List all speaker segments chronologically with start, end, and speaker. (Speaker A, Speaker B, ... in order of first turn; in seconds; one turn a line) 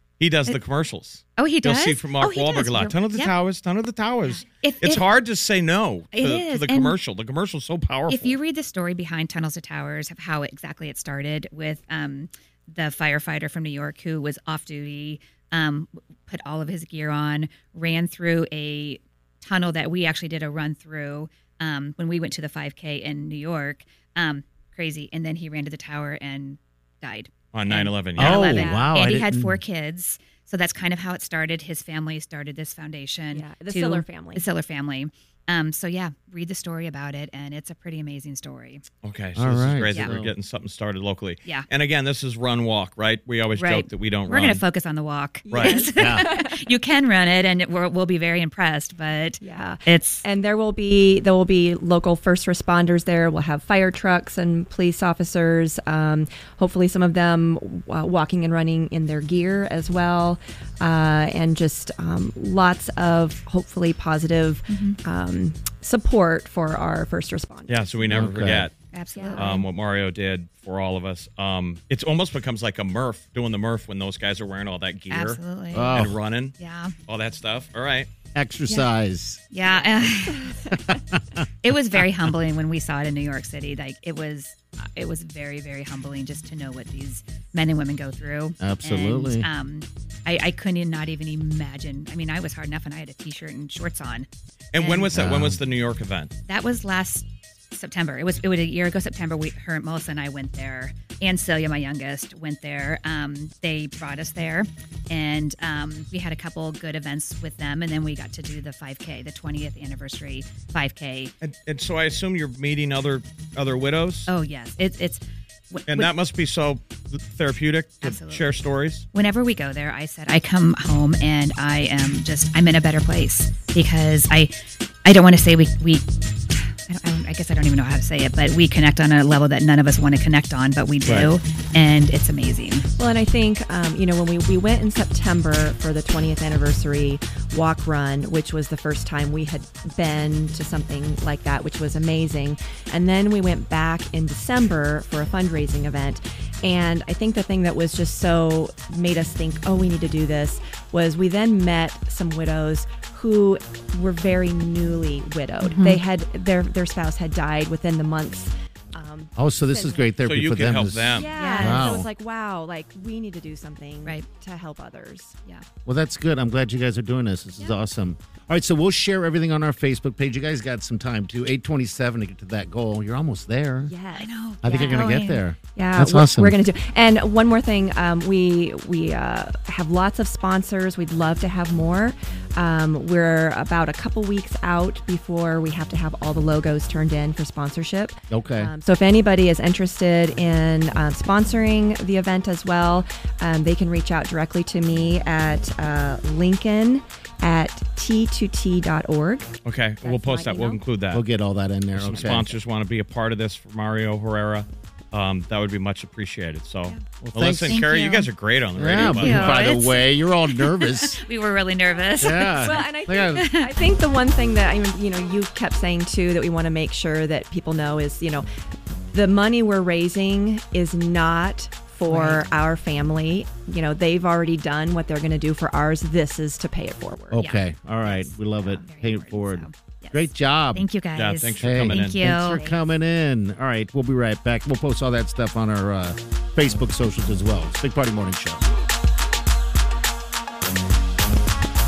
Speaker A: 0.2-8.4
Speaker B: 1.4-3.3
Speaker B: 4.2-5.0
Speaker B: 6.1-7.0
Speaker B: 8.1-38.8
Speaker A: 27.5-28.6
Speaker C: 28.2-29.6
Speaker D: 33.3-34.4
Speaker A: 39.0-44.6
Speaker C: 39.4-40.3
Speaker B: 39.9-40.1
Speaker B: 43.5-50.2
Speaker D: 45.5-46.6
Speaker A: 45.5-45.8
Speaker C: 45.9-46.3
Speaker D: 49.4-68.3
Speaker B: 64.7-65.0
Speaker A: 67.7-68.7
Speaker C: 68.1-68.7
Speaker B: 68.9-69.7
Speaker D: 69.1-69.5
Speaker A: 69.3-78.1
Speaker B: 75.1-75.9
Speaker C: 75.7-76.2
Speaker B: 76.6-76.9
Speaker C: 78.3-79.4
Speaker B: 79.5-80.5
Speaker B: 81.6-95.2
Speaker C: 88.6-89.5
Speaker A: 94.7-96.3
Speaker C: 95.1-95.6
Speaker B: 96.5-111.3
Speaker A: 111.4-114.3
Speaker B: 114.3-116.1
Speaker A: 115.9-119.1
Speaker B: 118.0-118.5
Speaker B: 119.1-124.5
Speaker B: 125.0-132.9
Speaker A: 131.0-131.3
Speaker D: 133.0-160.1
Speaker B: 155.6-156.0
Speaker C: 159.4-162.1
Speaker A: 160.2-161.3
Speaker D: 161.1-165.3
Speaker B: 161.3-162.1
Speaker C: 165.8-173.9
Speaker D: 173.8-175.1
Speaker B: 174.1-175.4
Speaker C: 174.6-176.5
Speaker D: 175.7-200.8
Speaker C: 188.3-188.7
Speaker A: 199.6-201.2
Speaker C: 201.1-202.5
Speaker A: 201.9-209.6
Speaker C: 207.2-207.8
Speaker B: 207.7-208.3
Speaker C: 208.8-211.2
Speaker B: 209.0-213.8
Speaker C: 212.2-213.5
Speaker D: 212.4-218.4
Speaker D: 219.1-227.4
Speaker B: 222.1-222.5
Speaker C: 227.3-230.9
Speaker B: 227.3-232.8
Speaker A: 231.1-232.2
Speaker C: 231.6-238.6